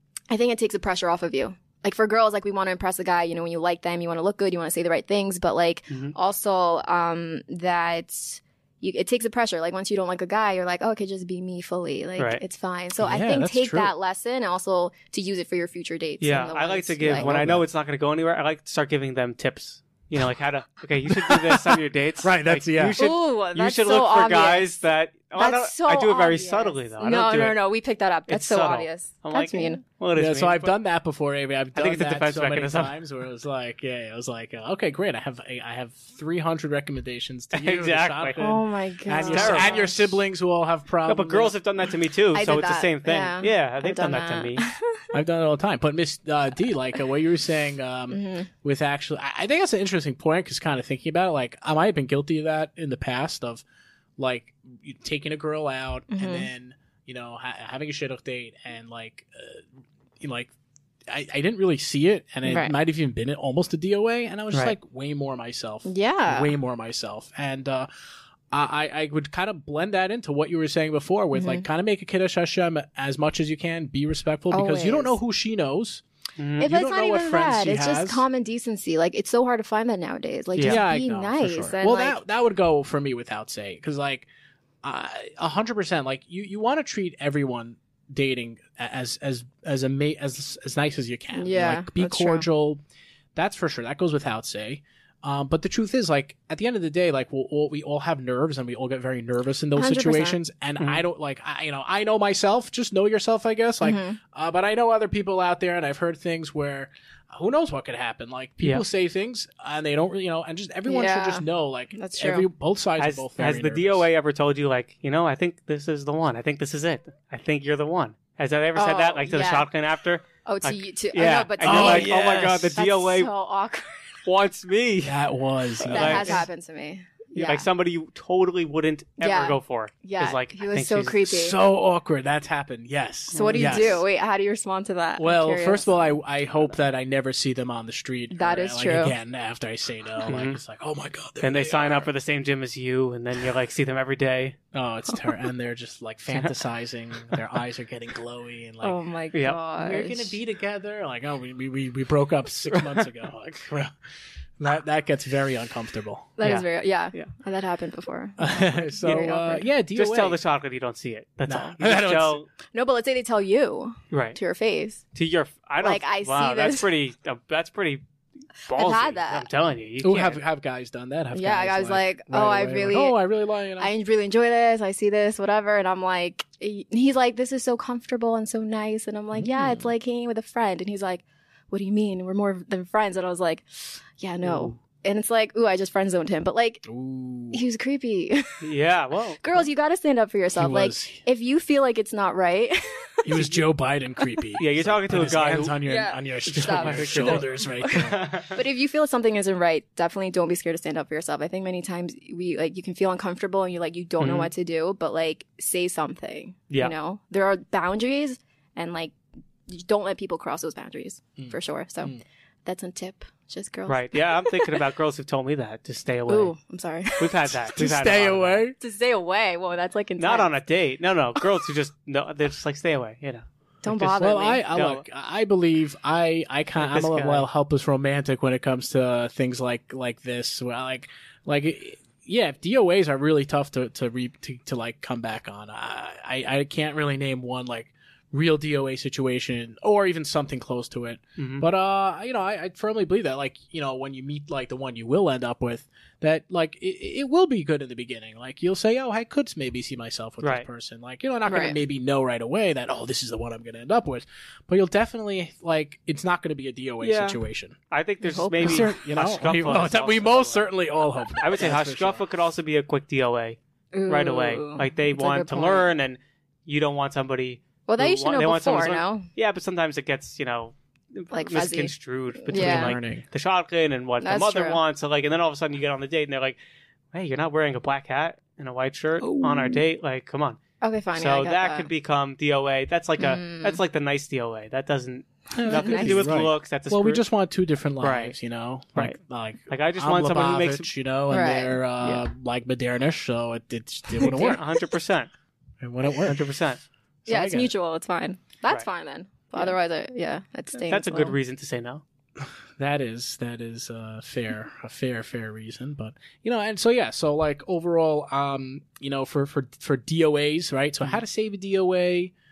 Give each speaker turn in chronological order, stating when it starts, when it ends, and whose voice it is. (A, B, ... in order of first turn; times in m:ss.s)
0:00.3-0:17.3 A
0:05.9-0:06.2 B
0:13.0-0:13.9 C
0:16.2-0:27.6 B
0:17.2-0:17.6 C
0:21.1-0:23.0 C
0:23.0-0:24.7 A
0:25.4-0:29.8 A
0:28.3-0:30.8 B
0:30.2-0:41.6 C
0:31.8-0:33.0 B
0:37.5-0:38.4 B
0:38.4-0:40.0 A
0:39.1-0:39.9 B
0:41.1-0:44.6 B
0:42.3-0:45.1 A
0:45.1-0:53.6 C
0:48.1-0:48.5 A
0:54.2-0:59.6 C
0:56.1-0:56.5 A
1:00.2-1:00.5 C
1:01.1-1:07.9 C
1:02.4-1:02.8 A
1:05.8-1:06.5 A
1:08.5-1:16.0 C
1:11.3-1:11.6 A
1:14.5-1:15.2 A
1:16.4-1:16.7 B
1:16.6-1:18.2 C
1:16.6-1:22.2 A
1:20.6-1:20.8 B
1:20.6-1:24.3 C
1:24.8-1:32.8 C
1:31.3-1:32.4 A
1:33.4-1:54.1 C
1:39.8-1:40.4 A
1:43.8-1:44.2 A
1:50.9-1:52.5 A
1:53.0-2:03.3 B
1:58.8-1:59.7 A
2:00.4-2:04.1 A
2:01.6-2:02.8 C
2:04.3-2:05.2 B
2:05.0-2:06.5 C
2:05.8-2:06.5 B
2:05.9-2:07.7 A
2:07.4-2:11.2 B
2:09.2-2:11.6 A
2:11.2-2:14.0 C
2:13.3-2:13.9 B
2:13.3-2:15.9 A
2:15.2-2:22.1 C
2:18.3-2:19.2 A
2:20.3-2:20.6 B
2:21.4-2:24.6 B
2:24.7-2:29.0 C
2:28.8-2:30.4 A
2:29.8-2:33.9 C
2:34.6-2:36.4 C
2:36.4-2:39.6 A
2:36.4-2:37.3 B
2:38.4-2:40.4 C
2:39.0-2:39.3 B
2:40.0-2:42.5 B
2:41.5-2:42.4 C
2:42.7-2:45.0 A
2:44.1-2:44.4 B
2:45.2-2:48.0 B
2:45.8-2:46.9 A
2:48.7-2:49.5 A
2:48.7-2:50.4 B
2:50.0-2:53.9 C
2:51.3-2:53.2 A
2:53.8-3:06.9 A
2:59.4-2:59.9 C
3:04.4-3:04.8 B
3:06.8-3:07.6 C
3:07.5-3:08.6 A
3:08.6-3:09.4 B
3:09.4-3:13.5 A
3:10.5-3:11.2 C
3:13.2-3:18.4 C
3:14.6-3:15.8 B
3:15.8-3:29.1 A
3:16.5-3:18.6 B
3:24.2-3:24.5 B
3:29.7-3:34.8 A
3:31.4-3:32.2 C
3:33.9-3:36.5 B
3:36.3-3:37.6 A
3:37.2-3:38.6 B
3:37.7-3:38.8 C
3:38.8-3:40.5 A
3:40.2-3:44.0 B
3:43.8-3:44.6 A
3:44.0-4:17.8 C
3:44.7-3:45.0 B
3:46.8-3:47.5 B
4:01.4-4:01.7 B
4:11.4-4:11.8 A
4:17.0-4:17.4 B
4:17.9-4:20.7 B
4:18.2-4:18.9 A
4:18.6-4:22.2 C
4:21.4-4:36.6 B
4:23.9-4:25.9 A
4:27.9-4:29.3 A
4:31.3-4:33.0 A
4:32.5-4:33.2 C
4:34.2-4:34.8 A
4:37.1-4:40.6 B
4:39.2-4:39.8 C
4:39.3-4:39.6 A
4:40.8-4:41.9 A
4:41.1-4:47.2 B
4:43.2-4:43.8 A
4:45.5-4:54.6 C
4:45.6-4:46.4 A
4:48.0-4:48.4 B
4:49.7-4:50.9 B
4:51.3-4:51.8 A
4:54.2-4:55.3 B
4:54.2-4:54.6 A
4:55.8-4:56.4 C
4:56.2-4:56.8 B
4:57.2-4:57.7 C
4:57.3-5:01.4 A
5:00.8-5:02.0 B
5:02.4-5:12.3 C